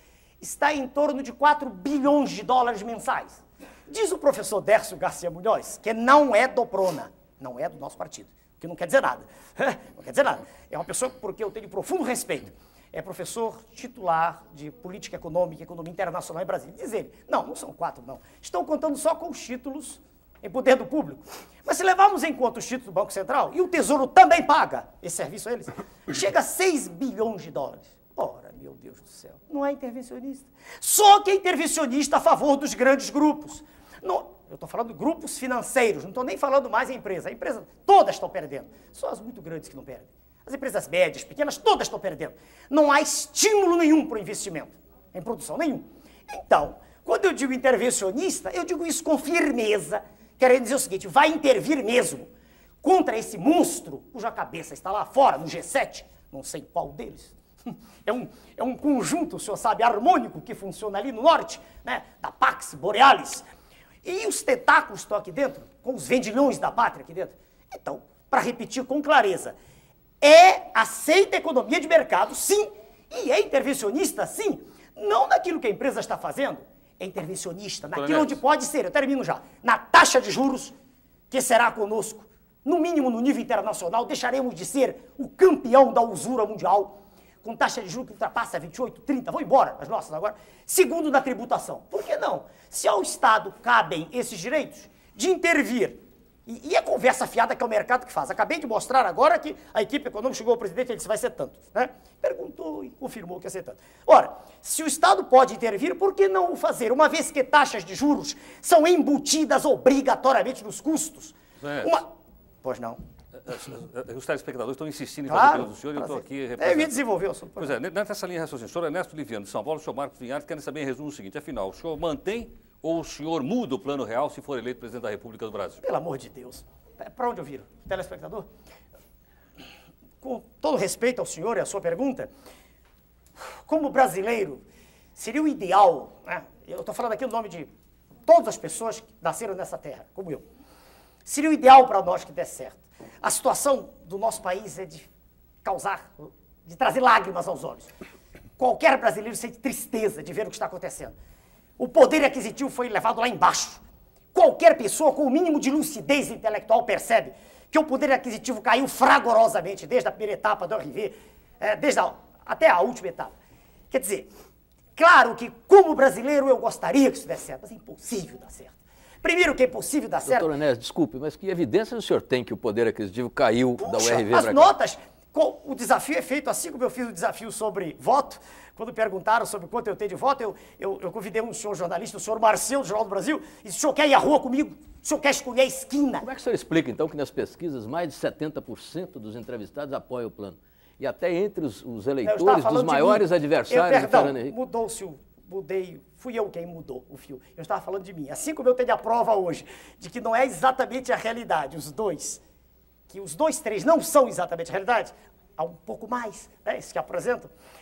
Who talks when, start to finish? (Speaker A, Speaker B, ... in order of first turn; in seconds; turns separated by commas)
Speaker A: 0.4-52.3, Speaker A: 52.8-57.3, Speaker A: 58.0-63.5, Speaker A: 64.0-69.5, Speaker A: 70.2-80.7, Speaker B: 77.9-78.4, Speaker A: 81.3-112.1, Speaker B: 111.6-112.0, Speaker A: 112.6-113.0, Speaker B: 113.5-117.0, Speaker A: 115.3-117.7, Speaker B: 117.6-125.8, Speaker A: 125.8-128.5, Speaker A: 130.2-132.3, Speaker A: 133.6-134.6, Speaker A: 135.2-137.7, Speaker A: 138.3-140.4, Speaker A: 141.2-145.1, Speaker A: 145.6-147.9, Speaker A: 148.6-151.1, Speaker A: 151.8-153.8, Speaker A: 154.3-163.3, Speaker A: 163.9-164.3, Speaker A: 164.9-170.5, Speaker C: 170.2-174.7, Speaker A: 173.8-186.2, Speaker C: 186.2-194.5, Speaker A: 192.2-202.4, Speaker A: 203.1-207.5